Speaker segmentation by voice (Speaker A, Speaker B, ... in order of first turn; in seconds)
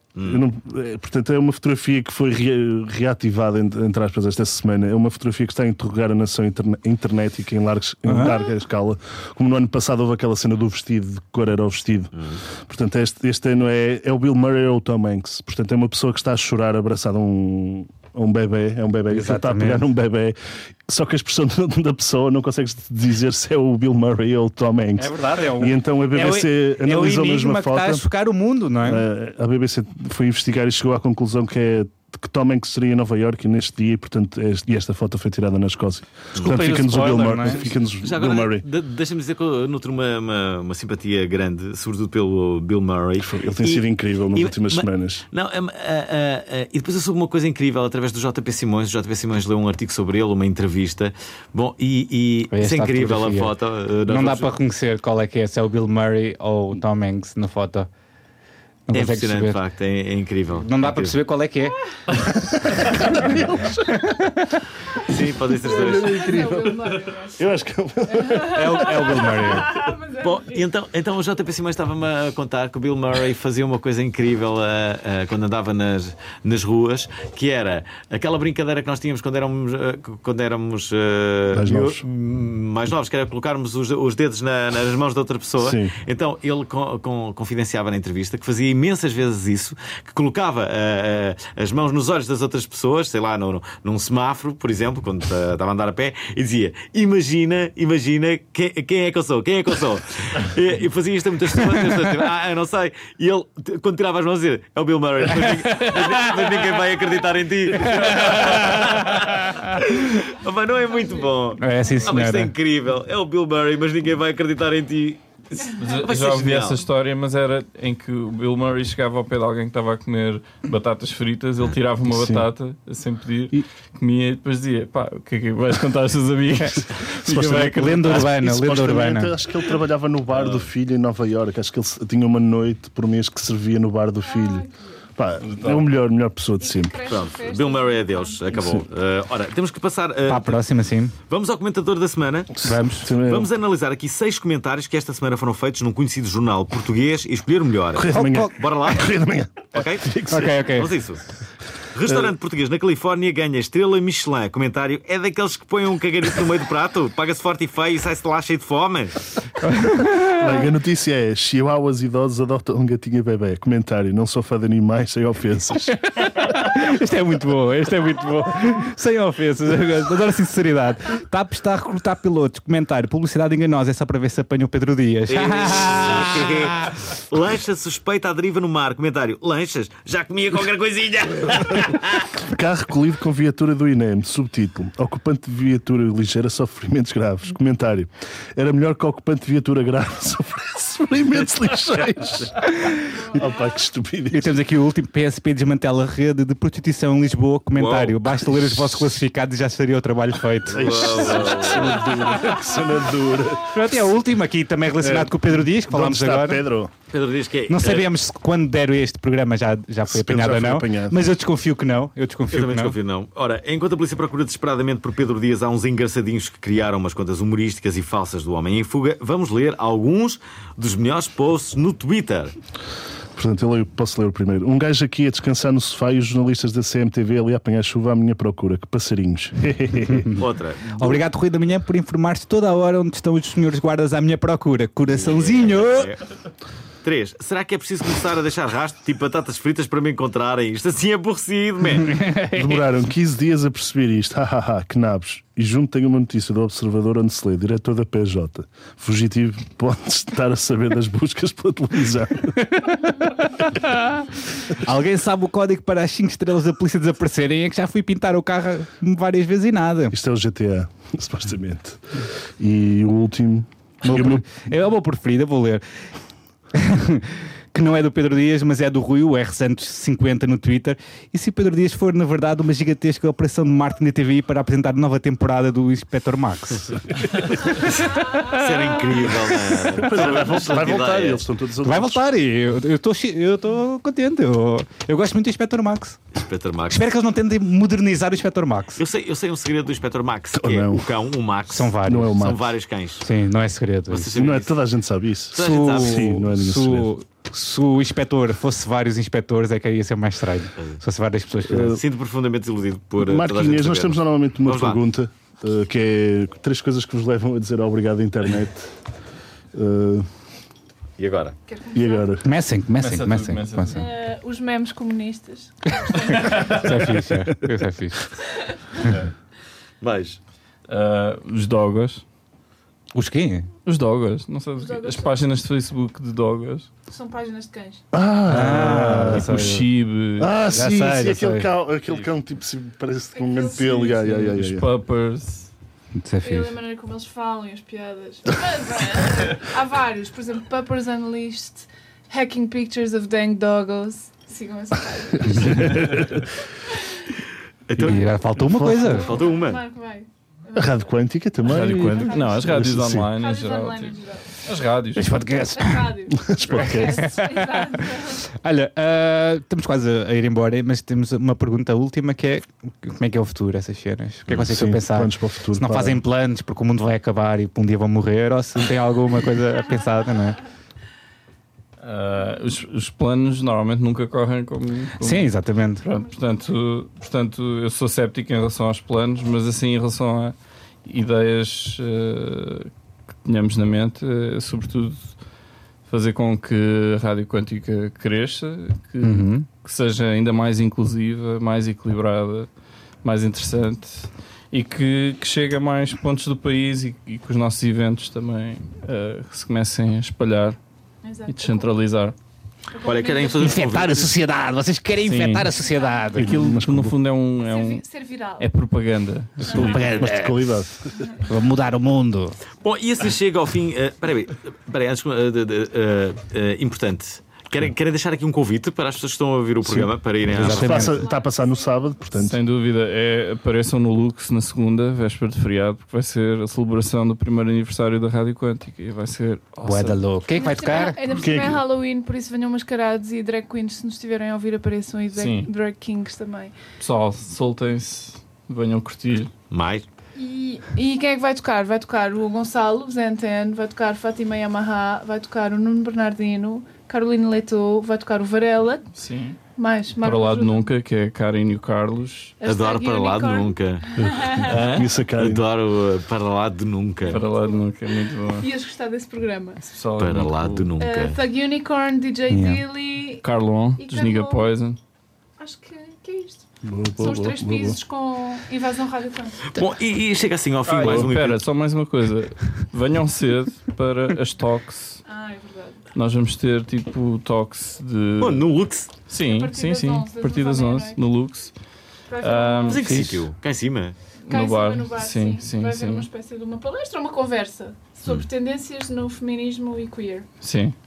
Speaker A: 0.2-0.4, 38.0-54.5, 58.9-61.2, 65.1-66.4, 70.2-116.8, 130.4-130.7, 137.1-140.6, 141.3-151.3, 151.9-159.3, 175.3-182.3, 197.8-198.2, 200.7-202.2, 207.1-208.1, 212.5-222.5, 230.4-231.2, 235.1-236.2, 237.0-242.1, 277.8-281.5, 286.4-287.1, 289.0-293.3, 294.1-294.8, 295.5-296.3, 301.9-305.0, 311.2-311.6, 320.0-320.4, 347.9-348.3, 349.1-349.8, 364.5-364.7, 403.0-404.4, 412.8-421.1, 439.7-440.1, 452.6-454.1, 454.7-457.4, 460.2-461.4, 469.8-471.7, 478.4-479.2, 482.9-484.2
Speaker B: 0.2-28.0, 28.8-38.6, 43.2-45.2, 62.2-63.7, 65.5-69.5, 81.5-82.0, 85.6-86.0, 122.1-122.5, 127.1-137.0, 138.5-138.9, 142.6-143.5, 147.9-150.4, 160.3-165.9, 182.4-192.7, 193.3-194.5, 200.7-203.8, 205.0-206.9, 210.1-211.2, 223.3-230.3, 242.5-252.6, 260.1-264.6, 279.9-282.2, 290.6-291.1, 292.0-292.6, 294.3-297.1, 301.7-302.0, 303.2-309.1, 309.7-310.3, 311.9-312.5, 328.1-329.9, 330.4-334.9, 345.6-346.5, 348.0-349.3, 350.8-353.3, 356.4-357.3, 364.7-366.2, 406.4-407.2, 409.7-411.1, 419.8-422.6, 431.3-431.8, 454.2-455.6, 466.8-468.0, 471.0-471.3
Speaker C: 8.1-8.4, 19.1-19.9, 25.0-29.1, 36.4-37.7, 52.5-57.9, 58.9-59.6, 60.6-61.8, 63.8-64.6, 68.5-69.7, 107.8-109.5, 111.6-112.5, 126.6-129.3, 140.3-141.2, 142.6-143.2, 148.1-148.5, 150.3-151.0, 159.6-160.6, 166.1-177.0, 194.3-201.6, 203.7-206.7, 207.7-213.0, 231.0-236.1, 242.0-242.8, 252.6-260.1, 264.1-265.8, 266.7-277.0, 281.8-286.2, 286.9-289.0, 291.7-292.4, 293.2-294.5, 295.6-302.0, 312.4-314.0, 316.8-318.4, 323.1-323.7, 328.5-329.9, 330.7-331.7, 336.2-336.8, 348.0-349.3, 355.2-370.6, 375.2-376.0, 389.2-389.7, 403.6-406.6, 409.6-410.8, 411.4-412.6, 420.5-421.2, 429.8-431.4, 462.5-462.8
Speaker D: 65.8-67.4, 68.2-70.6, 110.9-112.0, 134.2-135.0, 136.6-138.5, 311.7-312.3, 313.9-316.9, 324.8-325.4, 327.1-328.1, 333.3-333.8, 336.4-346.3, 349.0-350.9, 351.8-352.6, 353.4-354.6, 355.7-358.4, 401.2-402.0, 402.9-403.9, 405.8-406.3, 407.6-408.7, 409.6-410.2, 420.9-422.1, 430.6-436.7, 440.4-449.2, 449.8-450.9, 452.6-454.7, 457.3-457.9, 458.5-459.8, 461.0-463.4, 464.0-464.8, 465.6-469.6, 475.2-476.0, 479.4-481.2, 482.3-483.0, 484.5-490.5
Speaker E: 115.7-128.2, 135.4-135.9, 313.0-314.1, 316.4-316.8, 320.9-322.2, 323.9-326.9, 328.5-330.6, 333.8-335.7, 351.6-355.4, 372.0-385.4, 386.1-400.8, 401.5-402.4, 405.2-405.7, 406.3-408.0, 408.6-410.1, 422.4-430.2, 435.4-435.7, 437.0-439.5, 449.1-449.6, 450.2-452.6, 454.7-455.1, 457.3-458.7, 459.8-460.9, 463.4-465.0, 470.9-475.2, 476.1-478.7, 479.3-483.5, 484.4-486.3, 490.6-490.9